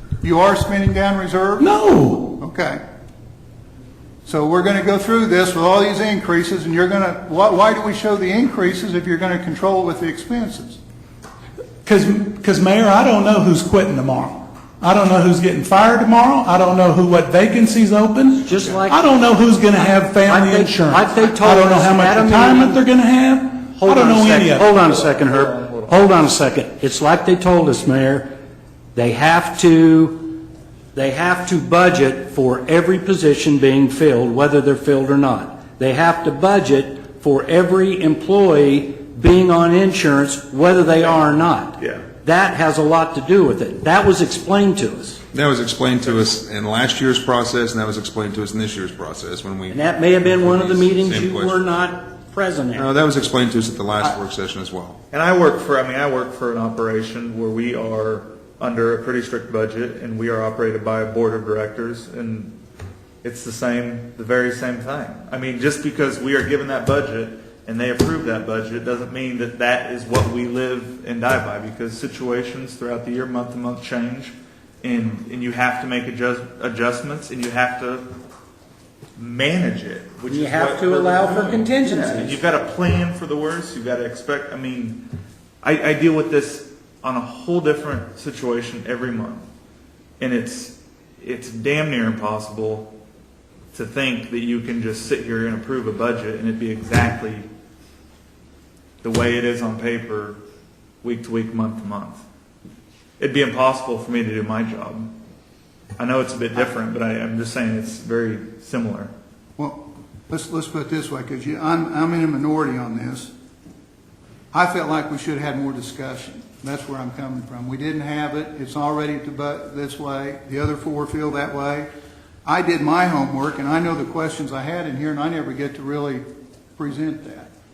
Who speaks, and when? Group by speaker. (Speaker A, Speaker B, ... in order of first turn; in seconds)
Speaker A: 0.2-1.7, 2.4-2.8, 4.2-10.8, 109.6-113.3, 114.5-121.9, 122.4-126.2, 126.8-127.5
Speaker B: 1.6-2.4, 11.8-24.7
Speaker C: 18.4-19.1, 20.2-22.8, 23.7-28.3, 28.9-45.2, 49.7-52.9, 80.3-82.4
Speaker D: 24.9-26.0, 41.0-42.1, 55.1-62.5, 63.2-78.0, 79.2-85.0, 85.6-89.4, 90.2-92.9, 93.7-97.5, 99.0-100.4, 101.0-102.2, 103.2-105.1, 106.0-109.1
Speaker E: 45.3-51.7, 52.7-55.0